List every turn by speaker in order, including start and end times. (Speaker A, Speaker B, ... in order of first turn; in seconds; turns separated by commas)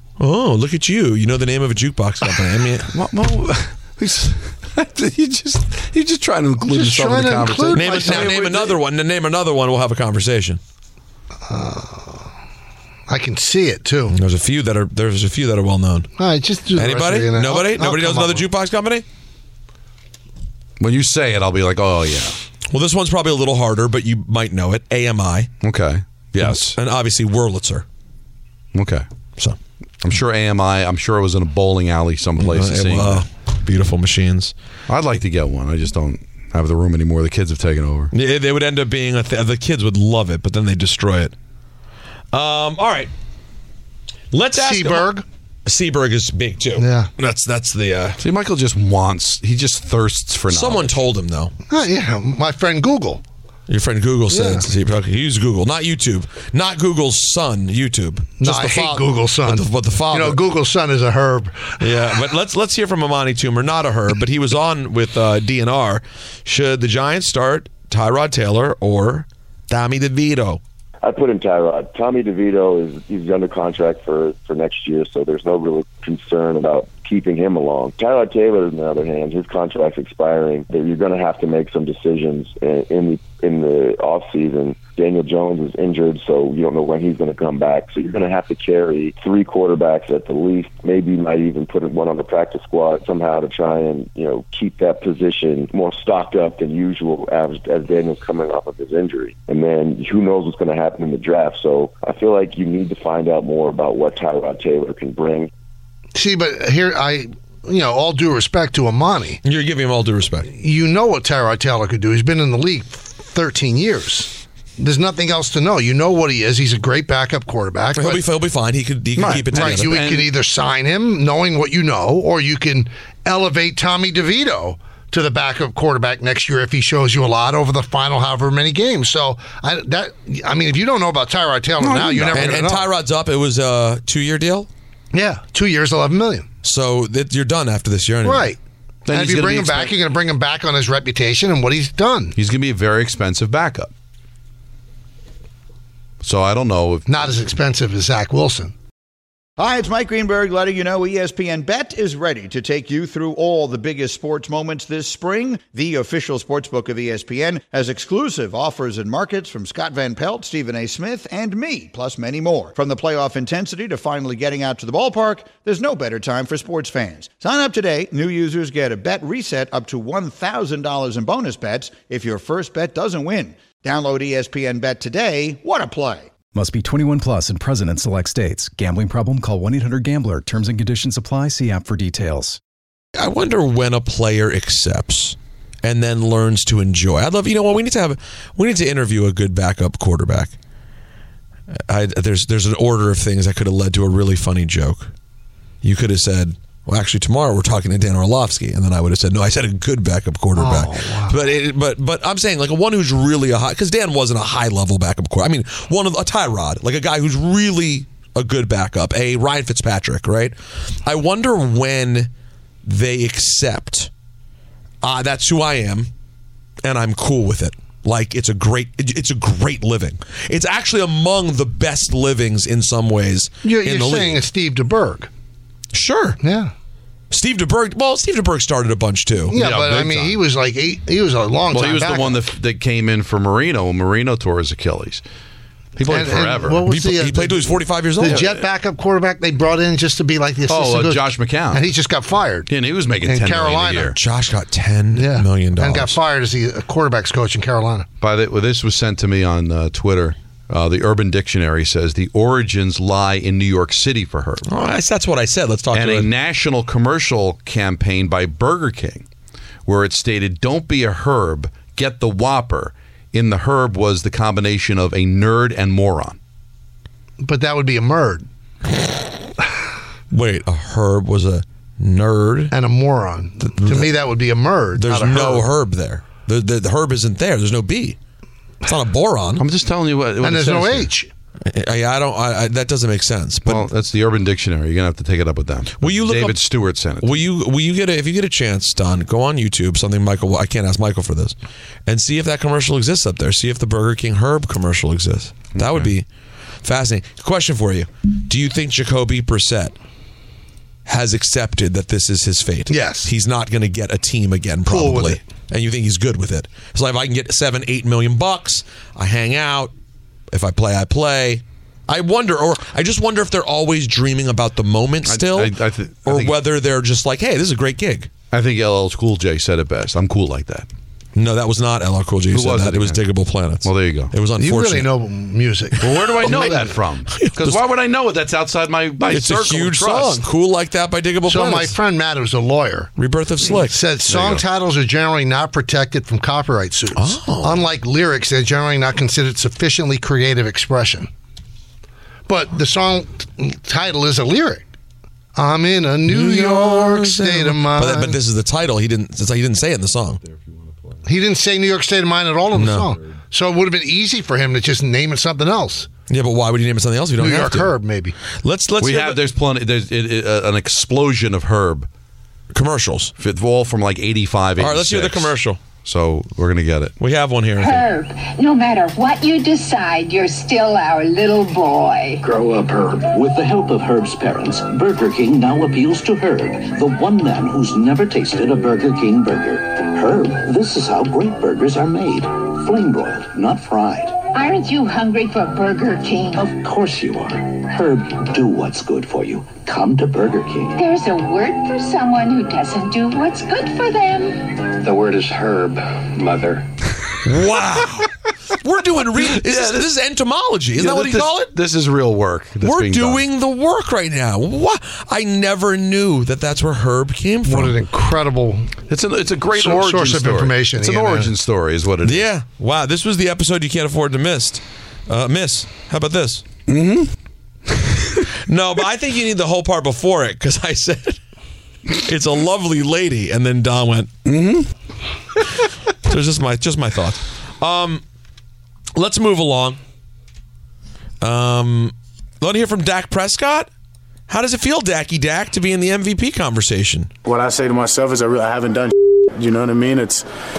Speaker A: 0.2-2.9, Speaker B: 2.9-8.6, Speaker C: 6.6-8.8, Speaker A: 7.7-10.6, Speaker C: 11.5-12.3, Speaker C: 13.1-14.2, Speaker A: 14.1-16.1, Speaker C: 16.2-18.4, Speaker A: 16.7-19.1, Speaker B: 20.8-22.4, Speaker A: 22.7-25.5, Speaker B: 25.6-26.7, Speaker A: 26.3-27.8, Speaker B: 28.7-29.1, Speaker B: 30.0-33.3, Speaker A: 32.4-34.5, Speaker B: 34.9-38.1, Speaker A: 38.1-41.3, Speaker A: 42.3-43.1, Speaker A: 44.3-45.1, Speaker C: 44.5-45.2, Speaker A: 45.6-48.2, Speaker C: 46.8-47.1, Speaker B: 48.2-51.0, Speaker A: 50.5-51.5, Speaker C: 51.7-53.2, Speaker A: 53.7-60.4, Speaker C: 54.3-54.6, Speaker C: 58.4-61.9, Speaker A: 61.8-70.6, Speaker D: 71.0-105.5, Speaker C: 106.2-109.4, Speaker A: 109.4-110.5, Speaker C: 110.5-118.2, Speaker A: 117.9-120.0, Speaker B: 119.2-120.3, Speaker C: 119.3-132.8, Speaker B: 131.8-132.5, Speaker A: 132.3-134.7, Speaker C: 135.1-136.5, Speaker A: 136.6-138.5, Speaker C: 138.2-142.3, Speaker B: 139.1-139.9, Speaker B: 142.3-143.9, Speaker B: 146.2-147.4, Speaker C: 147.1-148.7, Speaker E: 149.6-176.3, Speaker F: 176.5-182.6, Speaker A: 183.2-190.6, Speaker A: 191.7-195.1, Speaker A: 195.8-212.3, Speaker C: 200.6-201.4, Speaker A: 212.8-214.1, Speaker A: 215.0-216.1, Speaker A: 216.8-224.4, Speaker C: 223.6-225.3, Speaker A: 225.9-226.4, Speaker C: 226.4-226.7, Speaker A: 227.3-229.6, Speaker C: 229.5-232.4, Speaker B: 229.6-230.4, Speaker B: 231.7-235.2, Speaker B: 235.9-236.8, Speaker C: 236.1-242.7, Speaker A: 236.8-238.4, Speaker B: 238.2-238.7, Speaker B: 240.7-241.8, Speaker B: 242.7-244.2, Speaker C: 243.3-244.1, Speaker A: 244.1-246.2, Speaker C: 245.2-248.1, Speaker B: 248.2-254.7, Speaker A: 254.7-256.3, Speaker B: 255.9-259.3, Speaker B: 259.9-266.4, Speaker C: 267.4-268.4, Speaker A: 270.3-272.7, Speaker C: 272.7-275.7, Speaker A: 273.6-274.1, Speaker A: 274.9-278.2, Speaker A: 278.8-279.7, Speaker B: 279.6-281.1, Speaker C: 280.4-281.3, Speaker A: 281.6-283.9, Speaker B: 283.7-287.4, Speaker A: 286.0-286.6, Speaker A: 287.2-296.3, Speaker B: 295.7-296.1, Speaker A: 296.8-299.9, Speaker A: 301.1-309.9, Speaker C: 302.9-303.3, Speaker C: 304.9-305.4, Speaker A: 310.5-318.3, Speaker B: 315.3-316.6, Speaker B: 318.5-320.9, Speaker A: 321.3-325.1, Speaker B: 322.5-323.2, Speaker B: 323.8-324.3, Speaker C: 324.6-326.9, Speaker A: 326.0-327.8, Speaker B: 326.0-330.4, Speaker A: 329.3-332.0, Speaker C: 331.4-333.1, Speaker A: 333.2-334.0, Speaker C: 333.8-341.3, Speaker B: 334.2-334.6, Speaker A: 337.2-337.9, Speaker C: 342.5-344.8, Speaker C: 345.6-348.4, Speaker A: 346.3-350.4, Speaker C: 351.2-356.1, Speaker A: 352.7-353.2, Speaker A: 356.3-357.9, Speaker C: 357.4-358.4, Speaker A: 358.6-359.4, Speaker B: 359.0-362.1, Speaker A: 362.7-363.3, Speaker B: 363.4-365.5, Speaker A: 364.8-365.8, Speaker B: 366.0-367.1, Speaker A: 367.2-368.1, Speaker G: 367.8-372.4, Speaker H: 373.1-384.4, Speaker G: 384.5-386.6, Speaker H: 386.6-391.0, Speaker G: 390.9-394.9, Speaker A: 397.4-401.7, Speaker B: 397.7-398.1, Speaker B: 399.5-400.1, Speaker B: 400.9-403.4, Speaker A: 402.8-407.9, Speaker C: 407.6-408.9, Speaker B: 409.1-412.5, Speaker C: 409.7-411.5, Speaker A: 412.2-416.6, Speaker B: 416.9-417.3, Speaker A: 418.6-421.4, Speaker A: 422.2-424.3, Speaker B: 424.4-424.9, Speaker A: 426.2-428.2, Speaker A: 429.1-430.0, Speaker A: 431.4-433.9, Speaker A: 434.5-437.3, Speaker I: 437.4-440.4